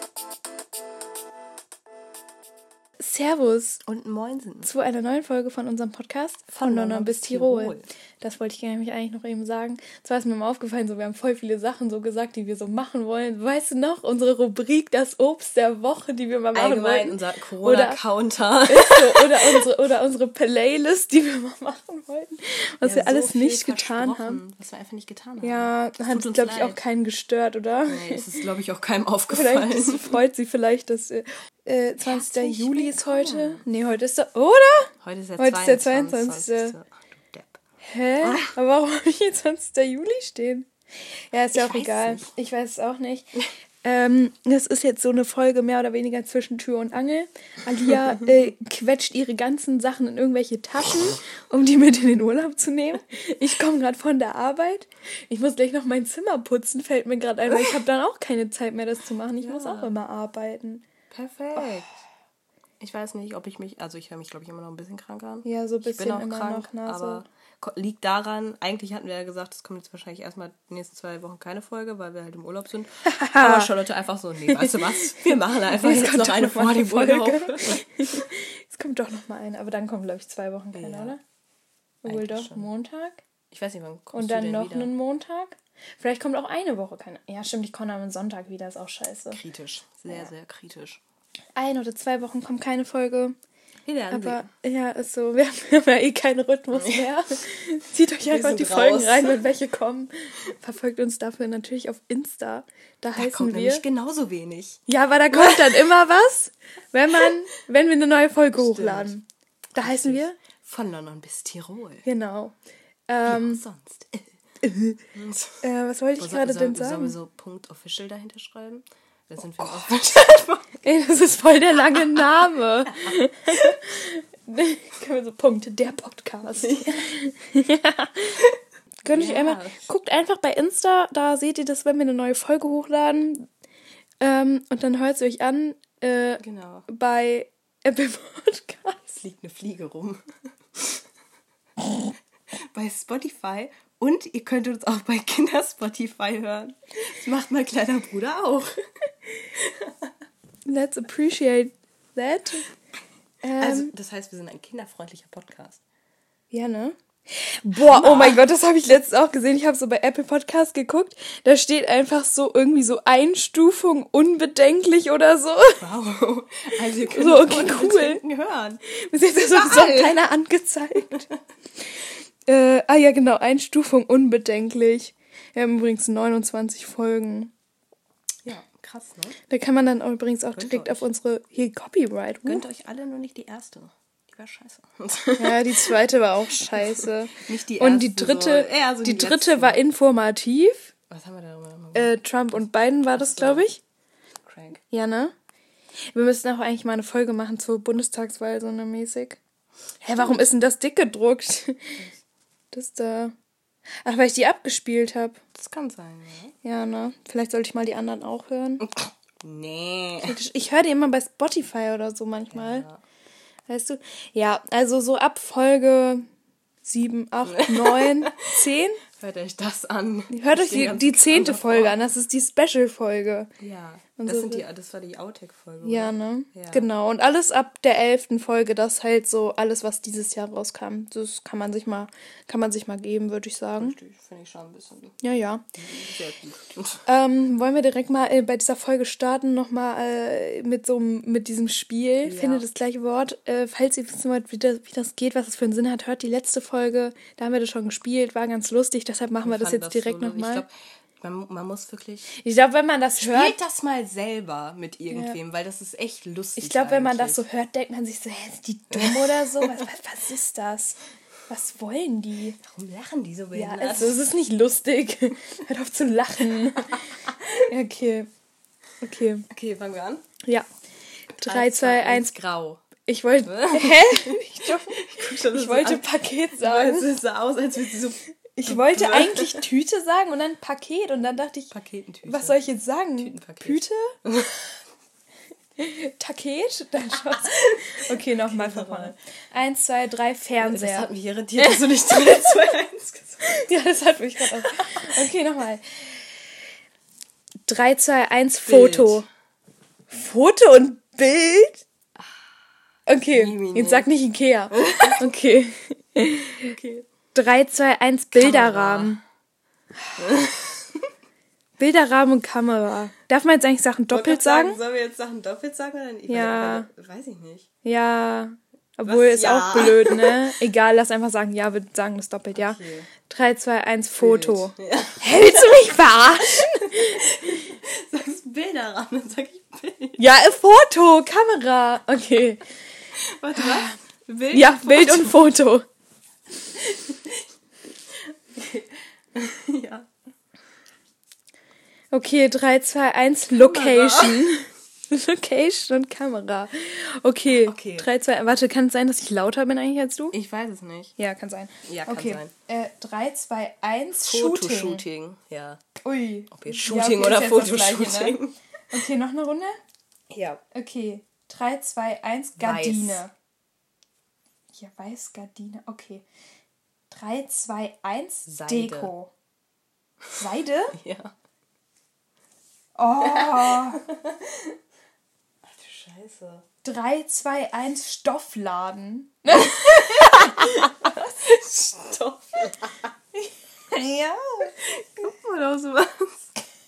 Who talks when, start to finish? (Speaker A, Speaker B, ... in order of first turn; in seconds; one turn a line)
Speaker A: 3.0-3.8
Speaker B: 3.8-4.7
Speaker A: 4.6-18.0
Speaker B: 6.5-7.8
Speaker B: 16.5-19.6
Speaker A: 18.7-24.4
Speaker B: 22.8-26.8
Speaker A: 25.4-28.3
Speaker B: 27.9-30.2
Speaker A: 29.3-36.8
Speaker B: 32.0-33.6
Speaker B: 35.0-37.6
Speaker A: 37.8-60.8
Speaker B: 38.2-38.5
Speaker B: 41.5-42.3
Speaker B: 59.4-59.9
Speaker B: 61.1-61.9
Speaker A: 61.5-61.8
Speaker B: 62.8-77.9
Speaker A: 65.4-67.2
Speaker A: 73.0-73.7
Speaker A: 74.4-81.2
Speaker B: 80.7-81.2
Speaker A: 82.0-83.2
Speaker B: 82.0-82.7
Speaker B: 83.5-84.9
Speaker A: 84.1-89.4
Speaker B: 89.3-91.0
Speaker A: 91.5-93.4
Speaker B: 93.8-94.5
Speaker A: 94.1-103.8
Speaker B: 96.7-97.0
Speaker B: 98.3-99.5
Speaker B: 103.1-104.8
Speaker A: 104.9-109.2
Speaker B: 105.3-105.8
Speaker B: 108.5-109.1
Speaker A: 109.7-110.4
Speaker B: 109.8-112.0
Speaker A: 112.0-112.5
Speaker A: 113.1-113.6
Speaker B: 113.2-114.4
Speaker A: 114.6-115.0
Speaker B: 115.1-115.6
Speaker A: 115.6-117.2
Speaker B: 116.2-120.8
Speaker A: 119.6-119.9
Speaker A: 120.8-128.4
Speaker B: 123.0-123.7
Speaker B: 126.6-127.0
Speaker B: 128.4-129.9
Speaker A: 129.0-133.5
Speaker A: 134.2-139.1
Speaker B: 136.4-136.8
Speaker B: 139.1-140.2
Speaker B: 140.7-141.0
Speaker B: 142.6-148.7
Speaker B: 149.6-150.1
Speaker A: 150.7-152.7
Speaker A: 153.4-153.9
Speaker B: 153.6-155.8
Speaker A: 156.5-165.8
Speaker B: 157.8-158.4
Speaker B: 165.8-168.8
Speaker A: 167.1-168.2
Speaker A: 168.9-171.2
Speaker B: 169.5-170.2
Speaker A: 172.4-177.5
Speaker B: 178.4-179.4
Speaker A: 179.5-182.6
Speaker B: 180.5-181.1
Speaker B: 182.4-186.0
Speaker A: 185.4-190.9
Speaker B: 186.7-189.8
Speaker B: 191.1-192.1
Speaker A: 191.9-193.8
Speaker B: 193.1-193.6
Speaker B: 194.4-194.8
Speaker A: 194.9-195.3
Speaker A: 196.1-199.4
Speaker A: 200.0-202.0
Speaker A: 202.7-203.3
Speaker A: 204.0-205.4
Speaker B: 205.5-206.5
Speaker A: 206.6-208.8
Speaker B: 208.8-210.3
Speaker A: 210.2-212.8
Speaker B: 212.5-213.0
Speaker A: 213.7-216.3
Speaker A: 216.8-219.0
Speaker B: 217.5-218.4
Speaker B: 219.2-222.0
Speaker A: 220.3-223.5
Speaker B: 223.6-226.9
Speaker A: 224.2-224.6
Speaker A: 225.8-234.0
Speaker B: 233.7-235.2
Speaker A: 235.2-235.7
Speaker B: 235.7-237.0
Speaker A: 237.1-250.6
Speaker B: 242.2-242.7
Speaker B: 249.4-252.3
Speaker A: 252.3-253.6
Speaker B: 253.2-257.4
Speaker A: 255.1-255.4
Speaker A: 256.6-261.0
Speaker B: 258.9-259.8
Speaker A: 261.5-262.6
Speaker B: 262.6-264.2
Speaker A: 263.5-267.1
Speaker A: 267.6-268.3
Speaker A: 269.0-269.5
Speaker B: 269.5-270.2
Speaker A: 271.3-272.3
Speaker B: 271.4-272.8
Speaker A: 273.1-277.1
Speaker B: 273.4-279.7
Speaker A: 278.5-281.7
Speaker B: 281.7-282.6
Speaker A: 282.2-284.1
Speaker B: 283.2-284.8
Speaker A: 285.8-292.5
Speaker B: 287.1-289.1
Speaker B: 290.6-293.6
Speaker A: 293.4-296.3
Speaker B: 294.6-295.2
Speaker A: 297.7-299.3
Speaker B: 298.6-299.2
Speaker A: 300.1-301.8
Speaker A: 303.1-306.8
Speaker B: 303.3-304.1
Speaker B: 304.7-305.3
Speaker B: 306.6-307.1
Speaker A: 307.3-309.2
Speaker B: 308.3-309.2
Speaker B: 310.2-311.1
Speaker A: 311.8-314.8
Speaker B: 314.1-317.7
Speaker A: 316.3-316.9
Speaker A: 317.8-327.7
Speaker B: 319.1-320.5
Speaker B: 322.5-323.1
Speaker B: 324.2-330.2
Speaker A: 330.2-332.6
Speaker B: 333.1-335.4
Speaker A: 333.5-333.9
Speaker A: 334.5-335.9
Speaker B: 336.8-337.4
Speaker B: 338.1-340.1
Speaker A: 342.1-350.4
Speaker B: 343.5-344.5
Speaker B: 347.5-348.1
Speaker B: 350.3-351.1
Speaker A: 351.2-355.0
Speaker B: 351.9-352.5
Speaker B: 354.2-355.8
Speaker A: 356.0-358.4
Speaker B: 356.5-358.5
Speaker A: 358.9-359.8
Speaker B: 360.3-360.6
Speaker A: 360.7-363.3
Speaker B: 362.6-363.2
Speaker A: 364.8-366.2
Speaker A: 367.1-369.3
Speaker B: 368.4-369.1
Speaker A: 370.4-371.0
Speaker B: 370.9-371.3
Speaker A: 373.0-374.0
Speaker B: 373.2-374.8
Speaker B: 375.6-376.6
Speaker A: 376.8-381.4
Speaker B: 379.6-383.1
Speaker A: 383.4-384.8
Speaker B: 384.8-386.5